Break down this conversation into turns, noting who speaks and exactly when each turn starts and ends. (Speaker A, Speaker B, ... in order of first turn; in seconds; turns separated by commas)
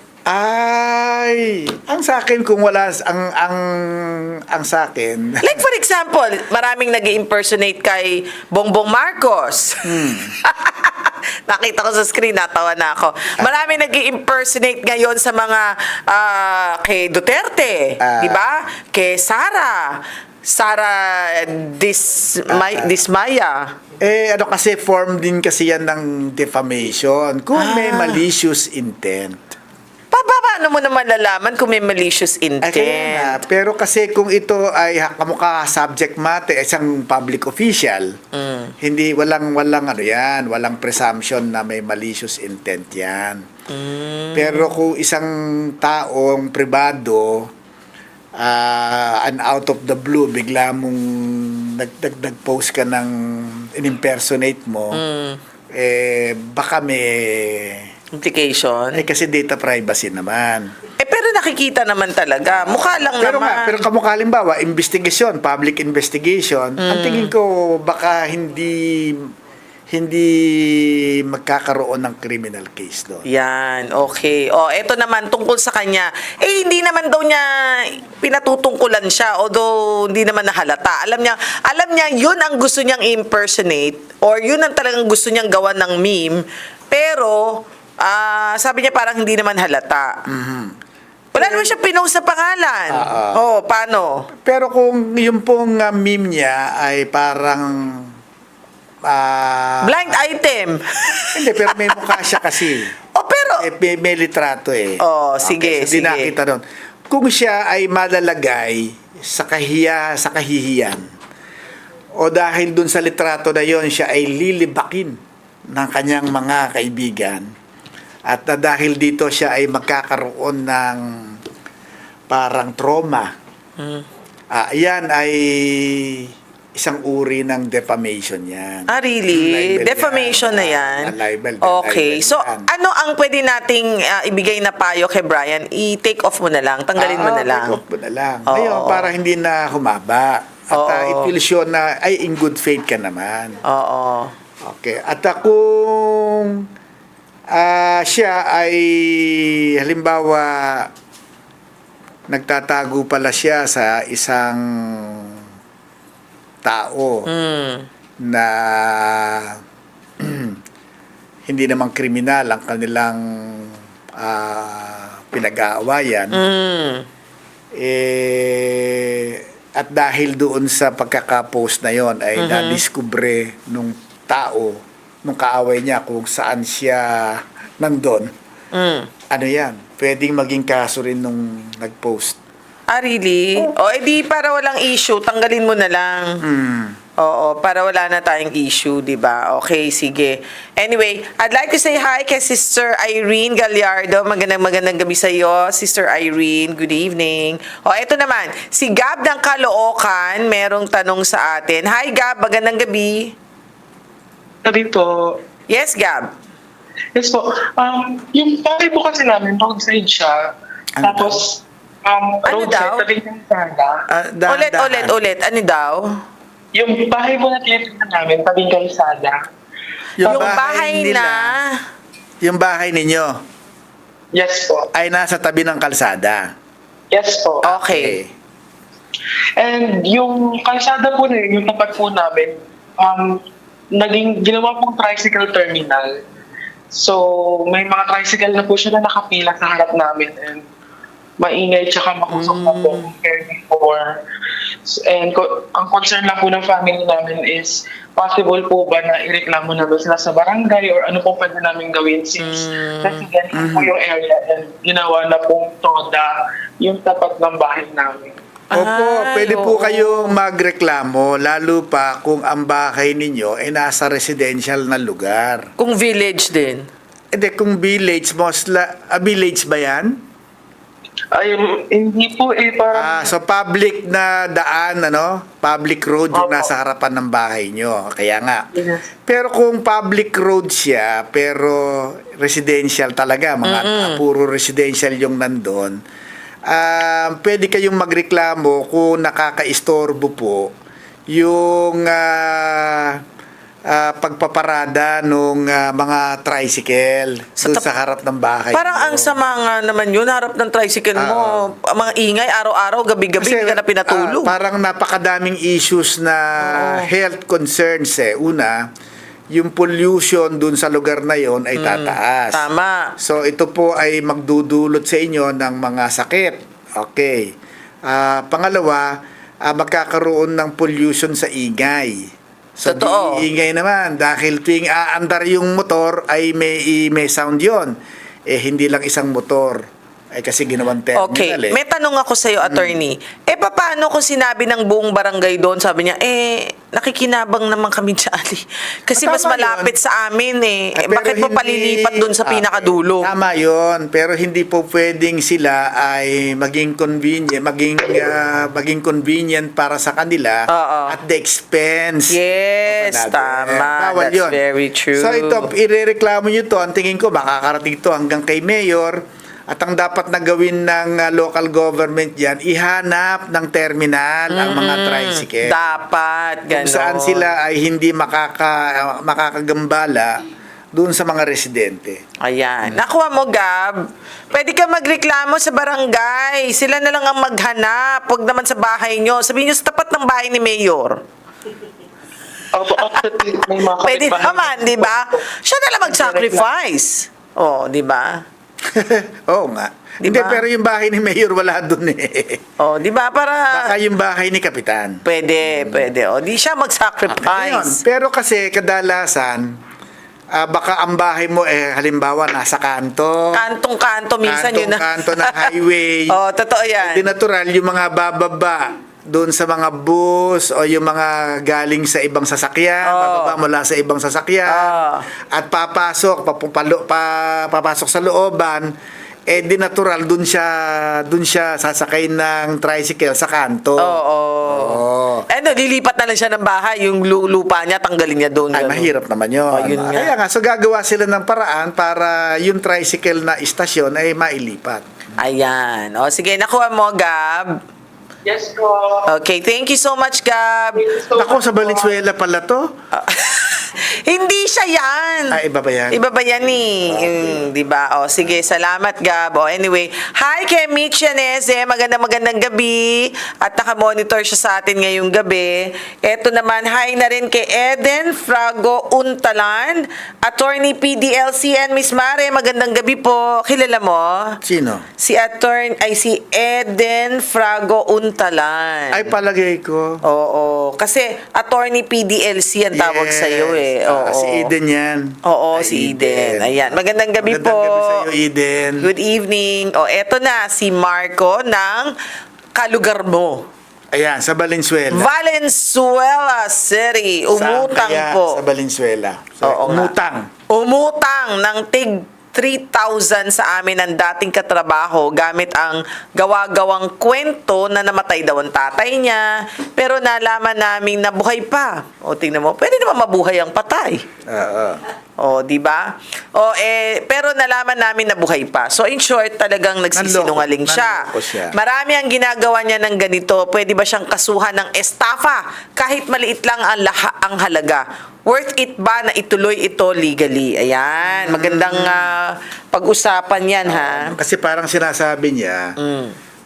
Speaker A: 0.3-5.6, Speaker B: 5.4-23.7, Speaker A: 9.8-10.3, Speaker A: 18.0-18.4, Speaker A: 22.5-22.9, Speaker A: 24.0-29.5, Speaker B: 27.6-28.2, Speaker B: 30.1-33.4, Speaker A: 32.6-38.2, Speaker B: 38.3-38.7, Speaker A: 38.8-43.5, Speaker B: 43.7-44.7, Speaker A: 44.3-47.5, Speaker A: 48.4-55.0, Speaker B: 54.9-55.4, Speaker A: 55.7-57.9, Speaker B: 58.1-59.0, Speaker A: 58.9-60.7, Speaker B: 61.0-63.8, Speaker A: 62.5-69.3, Speaker B: 66.8-67.3, Speaker A: 69.9-73.2, Speaker B: 73.2-90.2, Speaker A: 90.2-90.7, Speaker B: 91.3-94.3, Speaker A: 91.3-91.8, Speaker A: 92.9-93.4, Speaker A: 94.3-98.1, Speaker A: 99.0-100.2, Speaker B: 99.8-103.7, Speaker A: 101.3-102.9, Speaker A: 103.6-111.0, Speaker B: 105.0-106.3, Speaker A: 112.2-115.2, Speaker A: 115.7-117.5, Speaker A: 118.2-121.3, Speaker A: 122.3-123.3, Speaker B: 123.8-124.0, Speaker A: 124.5-132.7, Speaker B: 128.9-137.8, Speaker A: 137.0-143.6, Speaker B: 138.5-139.1, Speaker B: 140.7-141.3, Speaker B: 143.6-144.3, Speaker A: 144.6-146.6, Speaker A: 147.5-150.9, Speaker A: 152.3-155.4, Speaker A: 156.6-157.3, Speaker B: 157.2-157.9, Speaker A: 158.2-159.6, Speaker A: 160.2-160.6, Speaker A: 161.5-166.4, Speaker B: 166.3-167.1, Speaker A: 167.7-178.3, Speaker B: 172.3-172.8, Speaker B: 178.7-179.1, Speaker A: 179.3-182.4, Speaker B: 182.9-186.4, Speaker A: 186.4-187.0, Speaker B: 187.2-203.3, Speaker C: 204.6-205.4, Speaker B: 205.7-206.3, Speaker C: 207.1-210.4, Speaker A: 211.0-211.4, Speaker C: 211.0-214.0, Speaker B: 212.4-213.0, Speaker A: 214.1-215.1, Speaker B: 214.5-216.2, Speaker C: 216.7-219.4, Speaker A: 220.2-221.5, Speaker B: 220.2-221.8, Speaker A: 222.4-223.4, Speaker C: 224.3-224.9, Speaker A: 224.9-226.5, Speaker C: 227.1-227.7, Speaker B: 227.6-228.2, Speaker A: 227.7-228.3, Speaker C: 229.6-233.4, Speaker C: 233.9-236.2, Speaker C: 236.9-240.6, Speaker C: 241.4-244.1, Speaker B: 242.3-243.1, Speaker C: 244.8-258.3, Speaker B: 252.4-253.3, Speaker A: 253.5-253.9, Speaker B: 258.7-260.4, Speaker A: 258.7-265.7, Speaker B: 265.8-266.9, Speaker A: 267.3-270.2, Speaker C: 271.3-273.3, Speaker A: 272.9-278.7, Speaker C: 276.3-276.7, Speaker C: 278.7-279.0, Speaker A: 279.3-286.0, Speaker B: 283.6-284.2, Speaker A: 286.7-290.7, Speaker A: 291.3-293.2, Speaker A: 293.9-299.4, Speaker B: 297.6-297.9, Speaker B: 298.7-304.5, Speaker A: 301.1-301.7, Speaker A: 303.4-308.9, Speaker B: 306.6-307.1, Speaker A: 309.5-312.6, Speaker B: 311.8-313.1, Speaker A: 313.2-317.5, Speaker A: 318.1-327.9, Speaker B: 322.8-323.4, Speaker A: 328.5-331.8, Speaker B: 331.1-343.3, Speaker A: 332.6-333.0, Speaker A: 339.1-339.9, Speaker A: 340.9-354.6, Speaker B: 350.7-351.2, Speaker B: 352.3-355.7, Speaker A: 355.1-365.8, Speaker B: 364.5-367.5, Speaker A: 366.7-370.4, Speaker A: 370.9-372.2, Speaker B: 372.4-381.2, Speaker C: 382.7-385.4, Speaker B: 383.9-388.4, Speaker C: 386.1-386.6, Speaker A: 388.8-392.6, Speaker B: 390.2-390.6, Speaker B: 392.8-393.9, Speaker A: 393.7-396.0, Speaker B: 395.2-398.0, Speaker A: 397.3-399.7, Speaker A: 400.5-403.6, Speaker B: 403.5-405.7, Speaker A: 404.4-406.4, Speaker B: 406.3-407.3, Speaker A: 407.0-418.9, Speaker B: 413.0-413.6, Speaker B: 414.7-415.2, Speaker A: 419.5-425.4, Speaker B: 424.0-429.1, Speaker A: 428.7-435.1, Speaker B: 429.7-430.3, Speaker B: 435.4-437.8, Speaker C: 438.4-439.3, Speaker B: 439.3-441.1, Speaker C: 440.9-442.2, Speaker A: 441.3-442.9, Speaker B: 443.1-445.6, Speaker A: 445.5-447.7, Speaker B: 446.1-464.6, Speaker A: 464.6-465.1, Speaker B: 465.2-469.3, Speaker A: 469.1-470.2, Speaker B: 470.2-474.7, Speaker A: 472.9-479.1, Speaker B: 475.4-478.3, Speaker B: 479.0-482.1, Speaker B: 482.7-483.7, Speaker A: 484.1-485.3, Speaker B: 485.1-488.6, Speaker A: 487.5-490.5, Speaker B: 489.6-490.1, Speaker B: 490.7-504.2, Speaker A: 504.5-505.0, Speaker B: 505.4-524.4, Speaker A: 510.1-511.7, Speaker A: 521.2-522.3, Speaker A: 523.9-526.0, Speaker B: 526.0-526.4